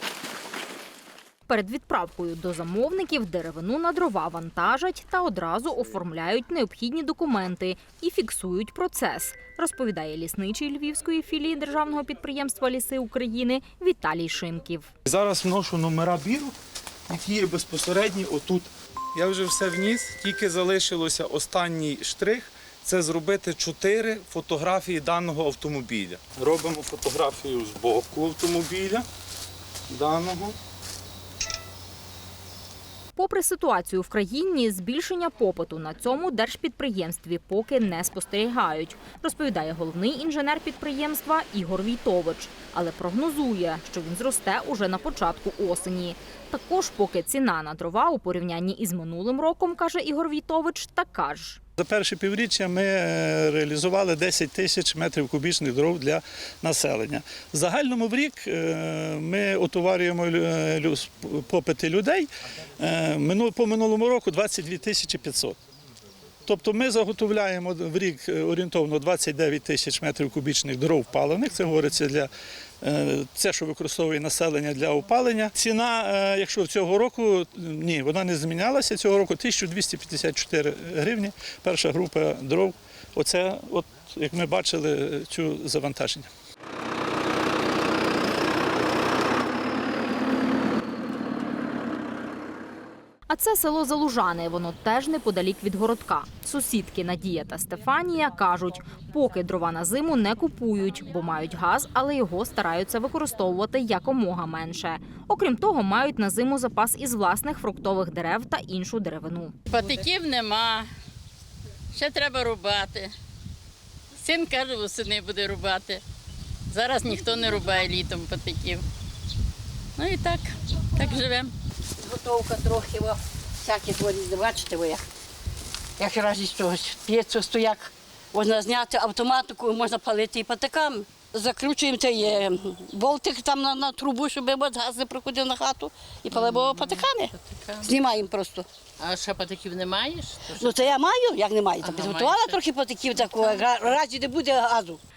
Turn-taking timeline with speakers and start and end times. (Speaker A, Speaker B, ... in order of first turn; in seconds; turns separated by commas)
Speaker A: 1.5-14.9, Speaker B: 15.1-16.5, Speaker B: 17.1-29.0, Speaker B: 29.9-30.6, Speaker A: 33.1-51.6, Speaker C: 51.8-65.6, Speaker C: 66.5-86.3, Speaker A: 93.3-109.5, Speaker D: 109.7-110.9, Speaker D: 111.9-113.1, Speaker D: 114.1-116.0, Speaker D: 116.7-118.8, Speaker D: 120.0-121.5, Speaker E: 122.0-125.1, Speaker E: 126.0-138.7, Speaker D: 136.3-137.9, Speaker D: 139.0-141.0, Speaker E: 140.5-145.0, Speaker D: 141.8-142.6, Speaker D: 143.1-143.7